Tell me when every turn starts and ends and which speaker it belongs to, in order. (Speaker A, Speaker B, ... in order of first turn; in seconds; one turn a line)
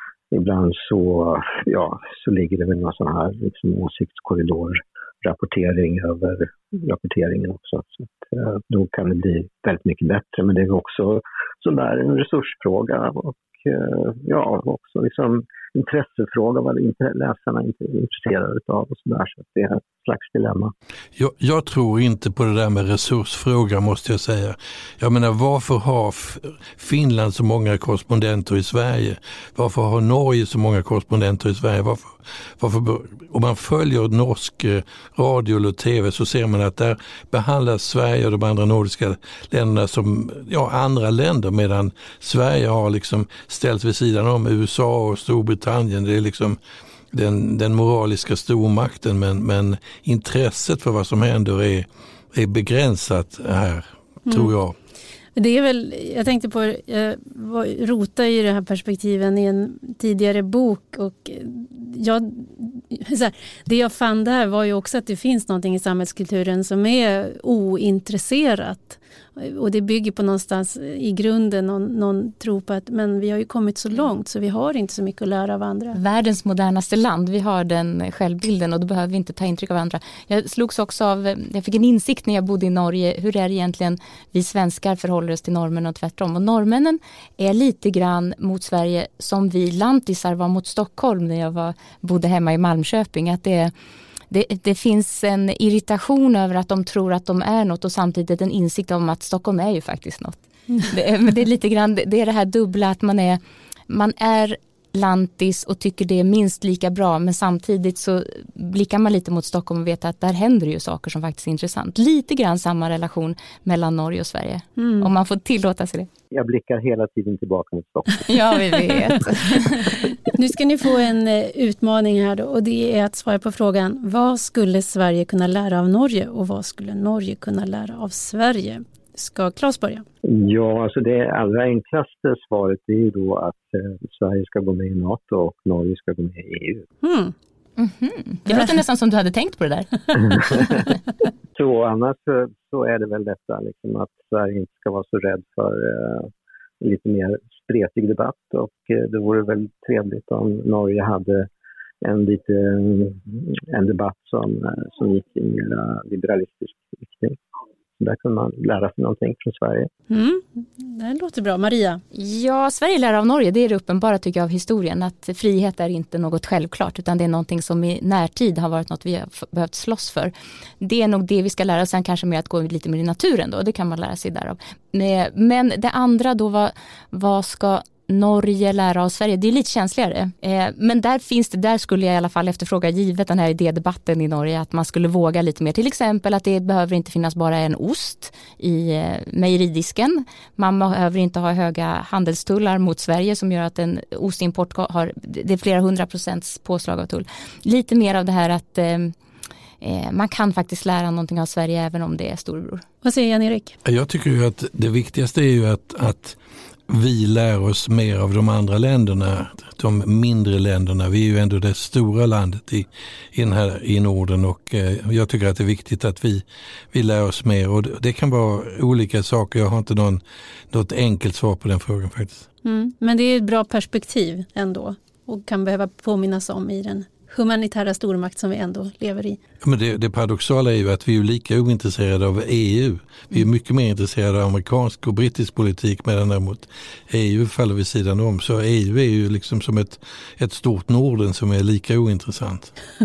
Speaker A: 0.3-20.7
Speaker B: 21.1-46.6
Speaker B: 47.1-54.7
Speaker C: 54.3-54.5
Speaker C: 55.4-76.0
Speaker D: 75.9-93.7
Speaker D: 94.3-116.1
Speaker C: 114.8-115.1
Speaker A: 116.3-118.3
Speaker D: 118.3-120.0
Speaker C: 120.3-130.0
Speaker A: 130.2-136.9
Speaker C: 137.0-137.3
Speaker D: 137.8-140.7
Speaker A: 140.3-140.9
Speaker A: 141.5-151.5
Speaker A: 152.0-157.4
Speaker A: 158.0-159.9
Speaker C: 160.1-162.0
Speaker D: 162.1-199.1
Speaker D: 199.8-202.8
Speaker C: 203.0-203.8
Speaker B: 203.8-206.4
Speaker B: 206.9-222.4
Speaker C: 222.6-229.4
Speaker B: 229.6-242.7